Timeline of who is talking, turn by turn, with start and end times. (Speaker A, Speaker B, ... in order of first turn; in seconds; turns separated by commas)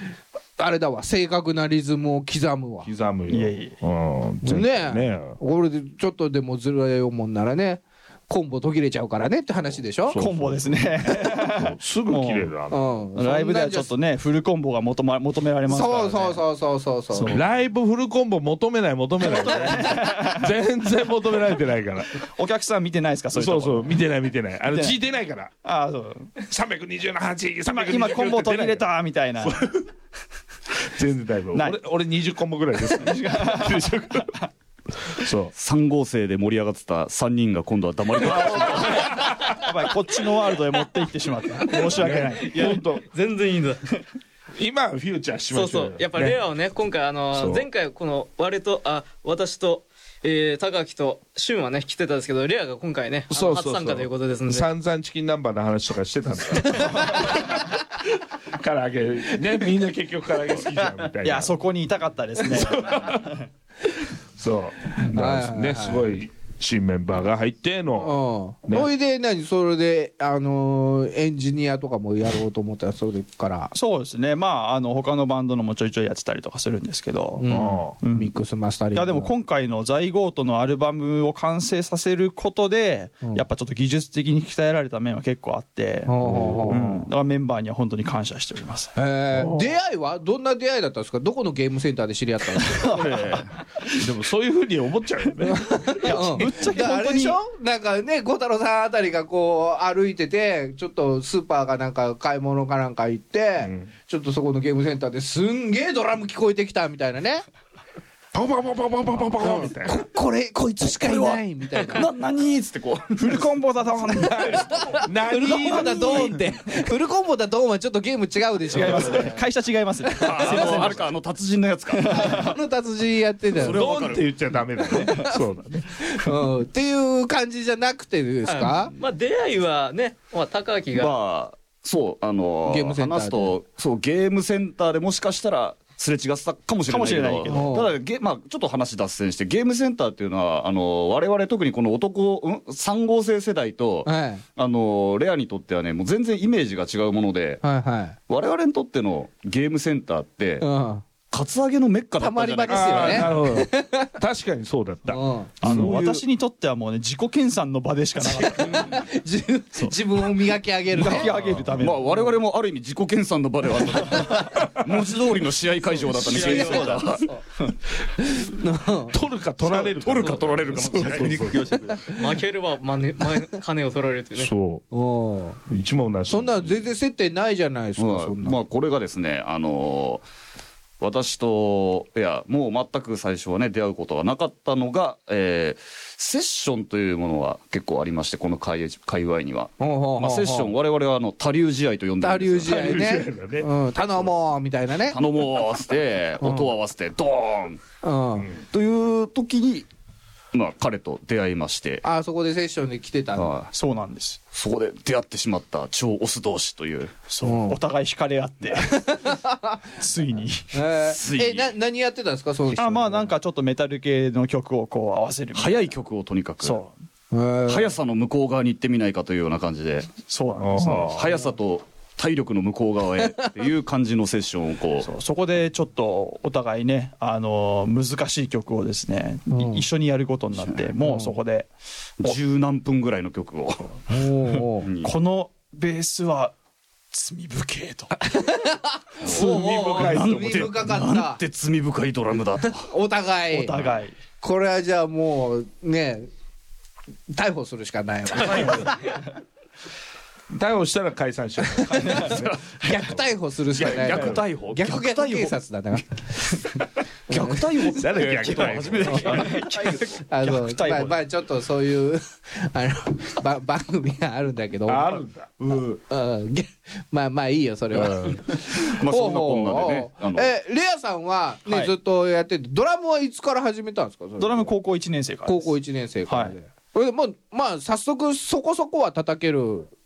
Speaker A: 0.6-2.9, Speaker B: 2.8-5.4, Speaker C: 3.3-3.8, Speaker A: 4.4-10.2, Speaker B: 10.1-12.8, Speaker C: 10.1-12.5, Speaker A: 12.7-13.9, Speaker C: 13.2-16.4, Speaker A: 15.7-17.4, Speaker C: 17.1-17.4, Speaker B: 17.3-22.2, Speaker C: 19.2-20.5, Speaker C: 22.2-23.9, Speaker B: 23.3-25.5, Speaker C: 24.7-25.0, Speaker C: 25.6-26.3, Speaker B: 26.4-28.9, Speaker C: 27.7-29.7, Speaker B: 29.4-29.8, Speaker B: 30.9-34.3, Speaker C: 31.5-31.8, Speaker C: 32.9-34.5, Speaker B: 35.0-35.5, Speaker D: 35.5-39.0, Speaker C: 38.2-42.9, Speaker B: 39.0-39.6, Speaker E: 41.7-43.9, Speaker B: 41.9-43.0, Speaker B: 44.6-46.4, Speaker E: 45.5-54.7, Speaker B: 47.3-47.6, Speaker B: 53.3-57.9, Speaker B: 58.5-61.5, Speaker C: 61.1-63.4, Speaker B: 62.5-63.3, Speaker B: 64.4-68.9, Speaker A: 65.0-66.0, Speaker A: 68.0-73.7, Speaker C: 73.7-78.3, Speaker A: 77.4-79.3, Speaker B: 77.5-77.9, Speaker C: 78.9-88.9, Speaker A: 86.1-86.9, Speaker B: 86.3-87.0, Speaker A: 89.0-93.0, Speaker B: 89.3-89.7, Speaker C: 92.6-93.8, Speaker B: 92.9-96.5, Speaker A: 95.4-107.4, Speaker C: 96.0-97.4, Speaker B: 103.6-103.9, Speaker B: 108.3-110.0, Speaker A: 109.4-112.1, Speaker D: 110.9-113.5, Speaker C: 113.2-114.8, Speaker B: 114.1-116.5, Speaker A: 114.3-119.4, Speaker C: 118.7-121.0, Speaker B: 118.7-119.3, Speaker A: 120.1-120.9, Speaker D: 120.2-122.5, Speaker C: 121.9-122.5, Speaker A: 122.1-123.9, Speaker D: 123.5-124.3, Speaker B: 123.6-125.9, Speaker A: 124.9-125.4, Speaker C: 125.0-125.2, Speaker A: 125.9-128.9, Speaker E: 128.4-131.1, Speaker D: 130.9-147.6, Speaker A: 132.7-133.5, Speaker C: 136.9-137.8, Speaker A: 137.5-137.9, Speaker A: 144.1-144.4, Speaker A: 147.6-148.2, Speaker D: 148.3-150.6, Speaker A: 150.6-151.0, Speaker D: 151.3-153.4, Speaker A: 152.2-154.1, Speaker B: 152.7-156.2, Speaker A: 155.1-155.8, Speaker C: 155.6-159.0, Speaker A: 158.2-161.3, Speaker C: 160.9-162.2, Speaker B: 161.3-161.7, Speaker D: 161.8-167.3, Speaker B: 164.6-164.8, Speaker A: 166.1-167.4, Speaker E: 166.2-167.0, Speaker C: 166.3-167.0, Speaker A: 168.0-169.2, Speaker B: 169.1-171.8, Speaker D: 169.6-172.1, Speaker A: 171.9-172.1, Speaker E: 172.1-174.5, Speaker B: 174.3-174.8, Speaker A: 174.9-175.6, Speaker B: 175.7-176.7, Speaker A: 176.3-178.6, Speaker D: 178.0-180.2, Speaker D: 181.0-193.0, Speaker A: 189.8-190.7, Speaker A: 192.2-195.2, Speaker B: 192.7-193.7, Speaker D: 195.1-197.8, Speaker A: 196.4-196.7, Speaker A: 198.0-198.5, Speaker D: 198.7-199.9, Speaker D: 200.5-202.0, Speaker A: 202.0-203.5, Speaker D: 203.3-203.7, Speaker C: 203.7-204.4, Speaker D: 204.5-207.2, Speaker C: 207.3-209.1, Speaker A: 207.4-207.8, Speaker A: 208.8-209.8, Speaker C: 210.0-210.8, Speaker A: 210.7-213.3, Speaker D: 211.1-211.7, Speaker C: 212.7-215.9, Speaker D: 215.5-216.8, Speaker C: 216.6-216.9, Speaker A: 217.3-217.9, Speaker D: 217.7-220.2, Speaker C: 220.2-221.2, Speaker B: 220.6-221.3, Speaker D: 221.0-225.1, Speaker C: 225.0-231.7, Speaker A: 229.5-229.8, Speaker D: 230.6-230.9, Speaker A: 231.0-231.3, Speaker D: 232.2-234.0, Speaker A: 234.1-234.9, Speaker D: 234.8-235.1, Speaker C: 235.0-236.5, Speaker C: 237.1-238.1, Speaker A: 238.1-241.4, Speaker D: 239.2-242.9, Speaker B: 239.2-240.8, Speaker A: 242.7-243.8, Speaker C: 243.5-244.2, Speaker A: 244.4-246.3, Speaker A: 247.3-249.1, Speaker D: 248.4-248.8, Speaker B: 250.5-252.6, Speaker A: 251.7-256.5, Speaker C: 251.9-252.5, Speaker D: 252.4-252.8, Speaker B: 253.8-254.4, Speaker D: 253.8-255.6, Speaker A: 257.3-257.9, Speaker D: 257.3-260.2, Speaker B: 258.0-259.4, Speaker A: 259.0-259.3, Speaker C: 259.2-261.2, Speaker E: 259.3-260.0, Speaker A: 260.1-265.2, Speaker B: 264.9-265.6, Speaker A: 265.9-274.7, Speaker B: 267.9-268.4, Speaker D: 268.8-270.5, Speaker C: 271.6-271.9, Speaker C: 274.4-275.7, Speaker A: 275.4-279.9, Speaker C: 276.3-276.5